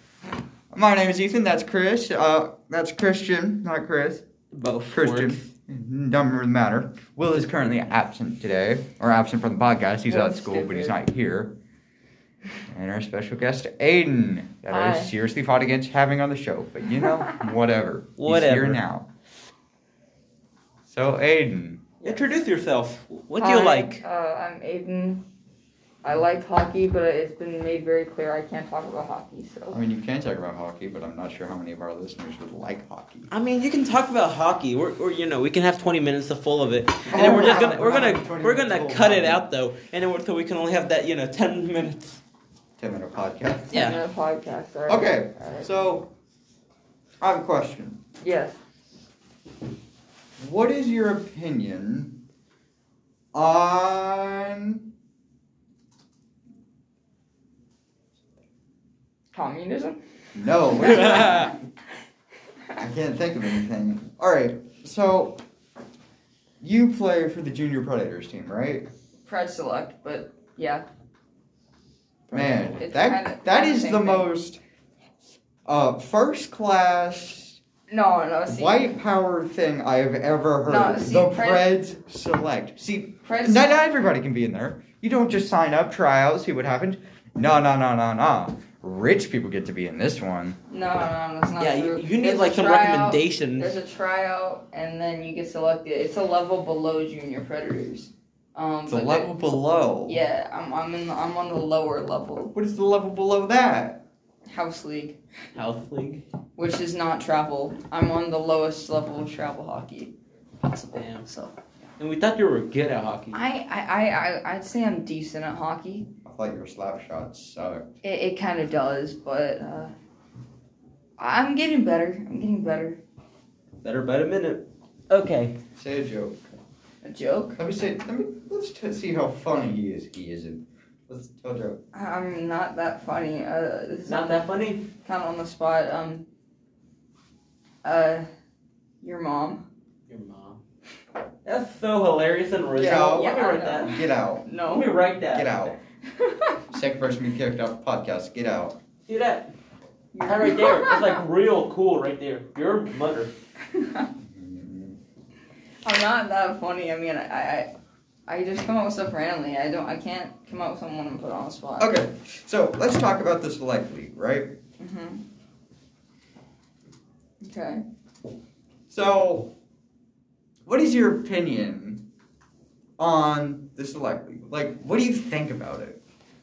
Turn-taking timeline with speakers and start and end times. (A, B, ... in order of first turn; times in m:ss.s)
0:00.7-0:04.2 A
0:04.5-0:05.4 B
0:04.9-0:11.6 A
0:10.1-0:11.0 C
0:12.7-0:19.1 A
0:14.7-0:15.1 C
0:18.2-0:18.8 B
0:20.9-0:21.9 A
0:22.0-0:22.3 C
0:22.0-0:24.0 B
0:23.4-0:25.2 C
0:26.0-0:29.8 C
0:29.7-0:33.3 A
0:33.3-0:42.2 B
0:37.1-0:39.4 A
0:37.2-0:37.6 C
0:42.8-0:43.7 A
0:43.7-0:45.7 C
0:43.7-0:44.0 B
0:44.9-0:46.1 A
0:47.2-0:48.0 A
0:48.2-0:48.6 C
0:50.4-0:52.2 A
0:53.3-0:54.9 A
0:59.3-1:00.0 C
1:00.4-1:01.6 A
1:00.6-1:01.6 C
1:02.8-1:05.4 A
1:06.6-1:08.9 A
1:09.3-1:10.9 C
1:12.3-1:14.6 A
1:12.3-1:14.3 C
1:15.6-1:17.6 A
1:17.9-1:18.9 C
1:18.5-1:30.6 A
1:20.6-1:21.7 C
1:23.2-1:23.8 C
1:30.7-1:39.3 C
1:31.6-1:33.8 B
1:38.9-1:40.2 A
1:40.0-1:42.6 C
1:42.6-1:44.0 A
1:44.5-1:45.2 C
1:45.5-1:46.2 B
1:46.6-1:51.5 C
1:50.9-1:51.3 B
1:52.0-1:53.4 B
1:53.3-1:56.1 C
1:56.2-1:57.9 A
1:58.0-1:59.9 C
2:01.2-2:03.0 C
2:03.8-2:05.6 B
2:05.8-2:06.4 A
2:07.0-2:07.6 C
2:07.6-2:11.8 A
2:11.9-2:16.3 C
2:14.1-2:14.8 B
2:17.8-2:18.3 C
2:19.0-2:19.6 C
2:20.1-2:20.6 B
2:21.4-2:24.0 B
2:22.8-2:24.4 A
2:23.1-2:24.9 C
2:24.7-2:25.6 B
2:25.3-2:25.8 A
2:26.2-2:26.6 C
2:26.7-2:28.8 A
2:29.1-2:29.5 B
2:30.1-2:31.2 C
2:30.2-2:33.3 B
2:33.7-2:34.1 C
2:34.2-2:35.0 A
2:35.8-2:37.7 C
2:38.3-2:42.0 C
2:41.8-2:44.6 A
2:44.8-2:45.2 C
2:47.4-2:47.8 C
2:48.9-2:49.5 A
2:50.7-2:52.0 A
2:53.0-2:56.0 A